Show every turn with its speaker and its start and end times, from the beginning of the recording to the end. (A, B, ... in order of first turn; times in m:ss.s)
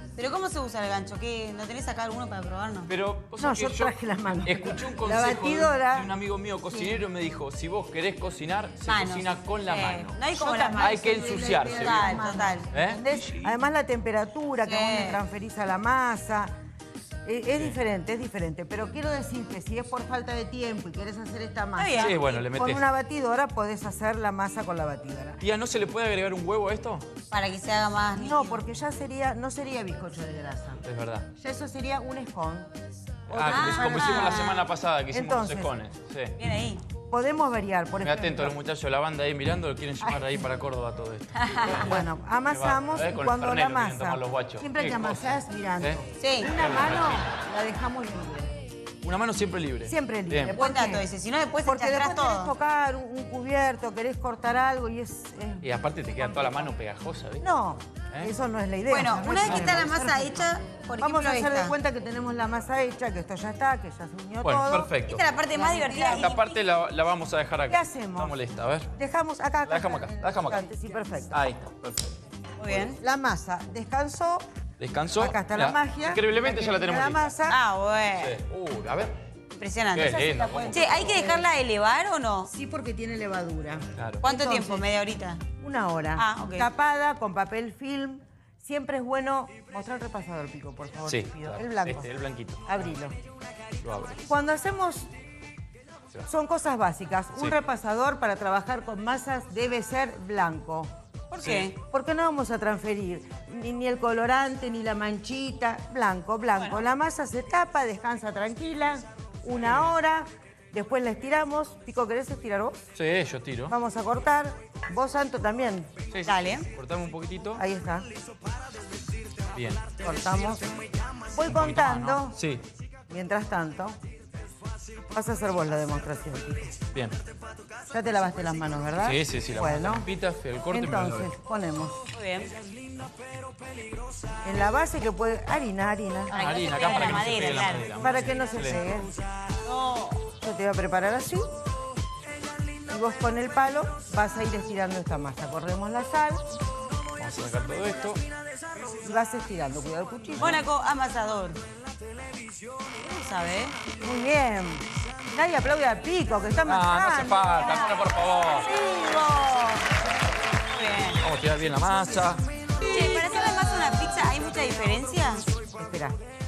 0:00.2-0:02.9 A
0:02.9-0:10.2 B
0:03.4-0:06.1 C
0:06.7-0:07.0 A
0:08.8-0:12.7 A
0:10.3-0:16.5 C
0:10.8-0:13.0 B
0:14.6-0:15.2 A
0:17.3-0:25.4 C
0:21.8-0:22.2 A
0:22.0-0:22.8 B
0:25.4-0:27.1 B
0:27.3-0:28.6 A
0:28.2-0:30.8 C
0:30.8-0:31.3 B
0:31.4-0:32.7 C
0:33.3-0:35.7 C
0:33.3-0:36.3 B
0:33.5-0:34.6 A
0:36.4-0:36.8 A
0:37.1-0:38.6 C
0:38.0-0:41.8 B
0:40.0-0:40.4 C
0:41.4-0:41.9 A
0:41.7-0:48.5 C
0:42.5-0:46.0 B
0:46.2-0:46.5 A
0:46.6-0:47.3 B
0:49.0-0:50.6 B
0:49.9-0:51.0 C
0:50.6-0:52.5 A
0:51.6-0:56.7 C
0:55.6-0:57.4 B
0:57.4-1:00.4 C
0:58.9-1:01.8 A
0:59.4-1:00.0 B
1:01.0-1:04.9 C
1:04.4-1:05.2 B
1:05.1-1:06.7 A
1:05.6-1:06.3 C
1:06.0-1:08.9 B
1:07.7-1:08.4 C
1:09.0-1:11.4 C
1:09.6-1:10.6 B
1:11.3-1:12.8 B
1:12.6-1:13.0 A
1:13.0-1:14.4 C
1:14.8-1:17.4 B
1:15.2-1:17.6 C
1:17.5-1:18.4 A
1:18.2-1:19.1 B
1:19.6-1:22.5 A
1:19.9-1:21.2 B
1:20.1-1:21.4 C
1:22.5-1:24.9 C
1:24.0-1:24.2 B
1:24.2-1:25.4 A
1:25.6-1:32.1 C
1:26.2-1:26.7 A
1:31.1-1:32.9 B
1:32.7-1:33.2 C
1:33.8-1:34.2 B
1:34.3-1:35.1 C
1:36.3-1:40.9 C
1:41.3-1:41.7 A
1:41.4-1:41.7 B
1:41.8-1:52.8 C
1:46.6-1:46.8 A
1:53.0-1:53.7 B
1:53.7-1:55.9 C
1:56.1-1:57.6 B
1:56.3-1:56.7 A
1:57.6-1:58.1 C
1:59.5-1:59.9 B
2:00.0-2:00.6 C
2:01.3-2:02.4 C
2:01.4-2:02.6 B
2:03.1-2:04.0 C
2:05.1-2:06.8 C
2:07.9-2:10.1 C
2:09.0-2:11.3 B
2:10.7-2:12.0 C
2:12.1-2:12.5 A
2:14.4-2:16.4 C
2:16.3-2:17.9 A
2:16.3-2:18.9 B
2:18.0-2:19.2 C
2:19.6-2:20.2 A
2:20.4-2:21.5 C
2:22.9-2:26.4 C
2:27.2-2:28.2 B
2:29.0-2:30.6 C
2:30.4-2:31.6 A
2:33.0-2:33.8 A
2:34.0-2:37.9 C
2:36.7-2:38.7 B
2:37.6-2:37.9 A
2:38.6-2:39.8 A
2:40.7-2:41.2 A
2:41.2-2:42.4 B
2:42.8-2:45.4 A
2:45.8-2:46.2 C